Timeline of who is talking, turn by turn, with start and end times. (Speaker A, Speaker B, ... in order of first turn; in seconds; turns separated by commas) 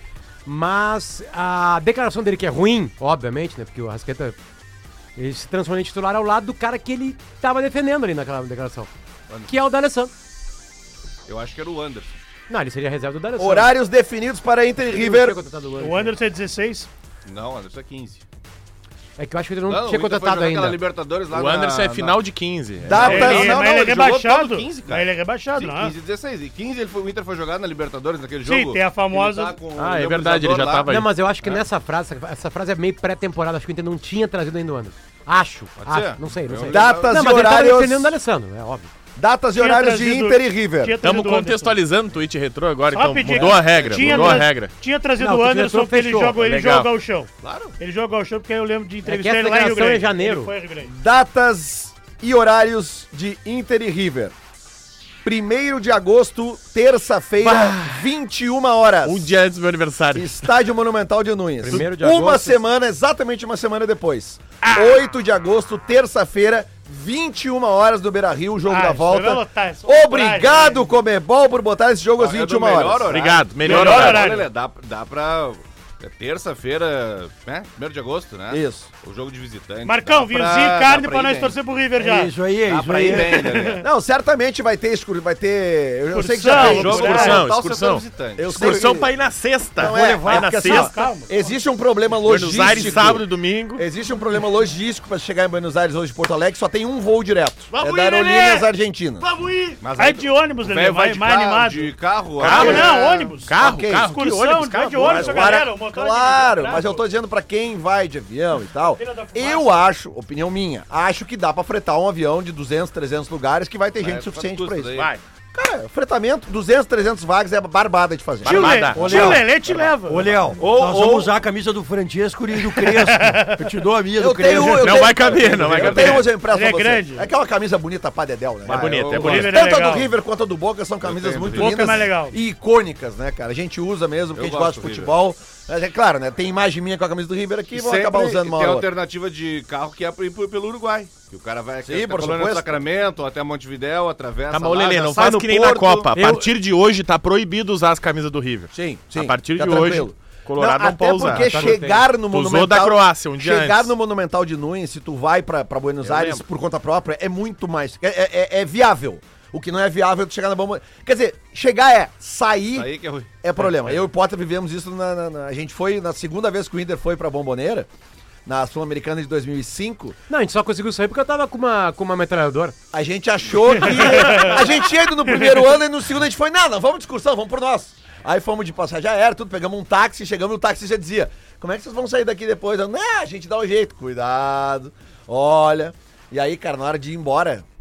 Speaker A: 0.5-4.3, Speaker A: 5.2-8.9, Speaker A: 9.5-10.1, Speaker B: 11.3-12.2, Speaker A: 12.5-13.7, Speaker C: 13.4-15.4, Speaker A: 14.9-16.1, Speaker D: 15.8-16.9, Speaker B: 17.2-18.2, Speaker A: 19.2-20.8, Speaker B: 19.7-22.2, Speaker E: 21.3-23.3, Speaker B: 22.8-30.9, Speaker C: 22.9-24.0, Speaker D: 23.0-25.9, Speaker D: 28.4-29.6, Speaker E: 29.7-31.1, Speaker A: 30.9-38.9, Speaker B: 35.8-37.3, Speaker C: 36.6-38.1, Speaker C: 39.1-41.0, Speaker D: 39.5-41.8, Speaker E: 41.0-44.7, Speaker D: 42.9-50.9, Speaker B: 43.2-44.4, Speaker A: 45.2-46.4, Speaker E: 46.4-46.9, Speaker B: 47.4-47.8, Speaker A: 49.0-50.5, Speaker C: 50.8-54.3, Speaker C: 55.2-59.3, Speaker E: 57.4-58.0, Speaker E: 59.0-60.4, Speaker C: 60.1-73.1, Speaker A: 61.6-62.6, Speaker E: 61.6-62.3, Speaker E: 64.6-64.9, Speaker D: 68.7-70.9, Speaker B: 72.2-81.6, Speaker E: 73.1-74.3, Speaker D: 73.6-74.5, Speaker C: 78.5-78.9, Speaker D: 79.8-82.3, Speaker F: 82.0-83.7, Speaker B: 82.7-83.8, Speaker D: 83.5-83.8, Speaker C: 83.8-87.2, Speaker D: 86.1-87.5, Speaker B: 86.5-88.4, Speaker E: 86.9-90.9, Speaker C: 88.4-89.1, Speaker C: 89.8-99.2, Speaker F: 89.8-90.8, Speaker D: 90.5-91.5, Speaker E: 92.2-93.8, Speaker D: 92.7-93.0, Speaker D: 99.7-107.0, Speaker B: 99.8-103.0, Speaker E: 102.4-102.9, Speaker C: 102.4-104.1, Speaker E: 103.4-105.5, Speaker C: 105.0-119.0, Speaker D: 109.0-109.8, Speaker B: 114.0-115.1, Speaker E: 114.9-115.2, Speaker E: 118.4-119.4, Speaker D: 118.5-120.5, Speaker F: 119.0-119.5, Speaker F: 120.0-125.9, Speaker B: 120.5-121.3, Speaker D: 122.9-123.7, Speaker C: 124.2-138.9, Speaker E: 124.6-126.3, Speaker B: 125.0-126.2, Speaker D: 126.3-127.3, Speaker B: 128.7-129.6, Speaker E: 128.7-129.5, Speaker D: 129.1-130.1, Speaker B: 131.0-132.0, Speaker D: 131.5-132.4, Speaker B: 134.3-135.1, Speaker B: 137.7-146.1, Speaker C: 141.8-142.7, Speaker E: 144.5-151.8, Speaker A: 146.1-146.5, Speaker C: 148.7-162.9, Speaker A: 151.3-152.1, Speaker E: 152.3-153.9, Speaker E: 156.0-156.4, Speaker B: 162.7-163.3, Speaker C: 163.4-167.9, Speaker C: 168.4-170.2, Speaker A: 170.3-172.7, Speaker C: 172.9-187.6, Speaker D: 173.8-174.6, Speaker D: 175.3-175.6